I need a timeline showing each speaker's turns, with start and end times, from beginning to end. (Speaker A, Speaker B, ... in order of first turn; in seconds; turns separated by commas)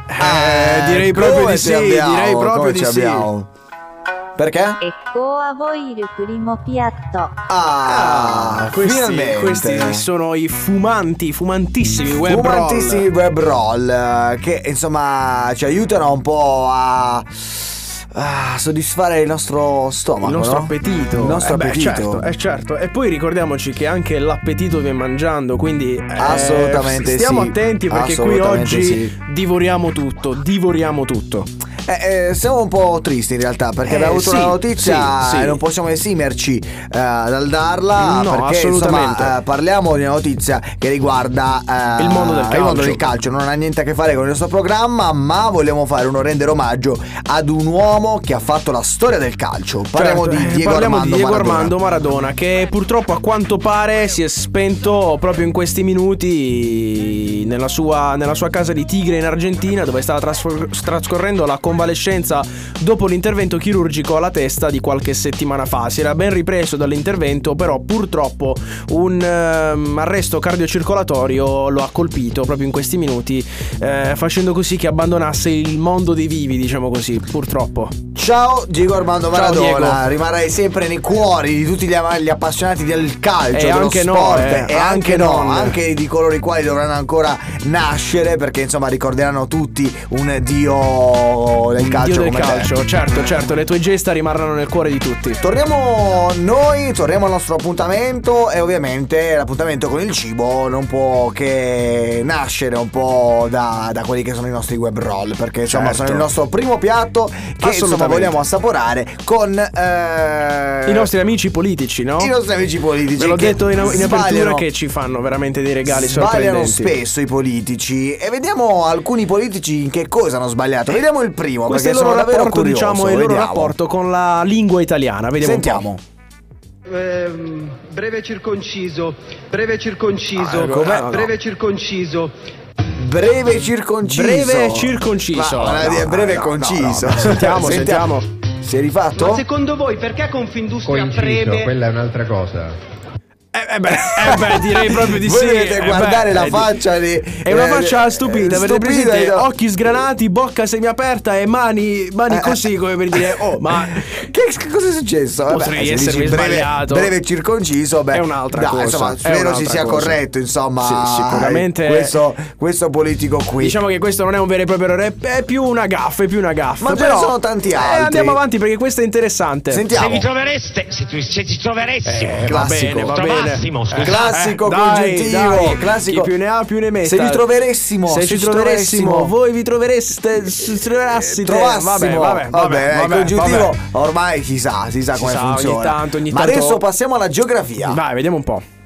Speaker A: 0.1-3.3, Speaker B: 0.2-3.5, Speaker B: 4.4-4.8, Speaker C: 4.8-7.3, Speaker B: 7.5-10.1, Speaker A: 7.8-13.1, Speaker B: 12.2-22.3, Speaker A: 20.2-31.5, Speaker B: 26.2-29.1, Speaker B: 31.9-51.8, Speaker A: 33.8-35.6, Speaker A: 38.0-39.4, Speaker A: 42.0-43.1, Speaker A: 49.9-78.0, Speaker B: 78.2-92.7, Speaker A: 79.3-80.0, Speaker A: 83.5-85.8, Speaker A: 91.8-95.4, Speaker B: 95.4-111.1, Speaker A: 105.7-106.3, Speaker A: 107.6-108.4, Speaker A: 110.9-112.3, Speaker B: 112.2-114.7, Speaker A: 113.2-117.0, Speaker B: 115.8-123.8, Speaker A: 121.7-125.9, Speaker B: 125.4-126.0, Speaker D: 126.9-132.3, Speaker A: 130.3-131.3, Speaker B: 130.6-131.2, Speaker B: 133.0-139.4, Speaker A: 134.0-138.3, Speaker D: 139.2-141.7, Speaker E: 140.8-142.8, Speaker A: 143.5-154.2, Speaker B: 143.9-149.5, Speaker B: 152.3-163.8, Speaker A: 155.5-157.1, Speaker A: 158.1-160.2, Speaker A: 160.8-162.2, Speaker A: 163.6-169.9, Speaker B: 166.8-168.4, Speaker B: 169.7-170.3, Speaker F: 169.9-172.6, Speaker A: 172.0-177.4, Speaker B: 172.4-173.2, Speaker F: 173.1-174.3, Speaker B: 174.0-176.3, Speaker B: 177.0-179.3, Speaker A: 178.1-183.8, Speaker B: 181.2-188.0, Speaker A: 185.1-186.8, Speaker A: 187.8-188.7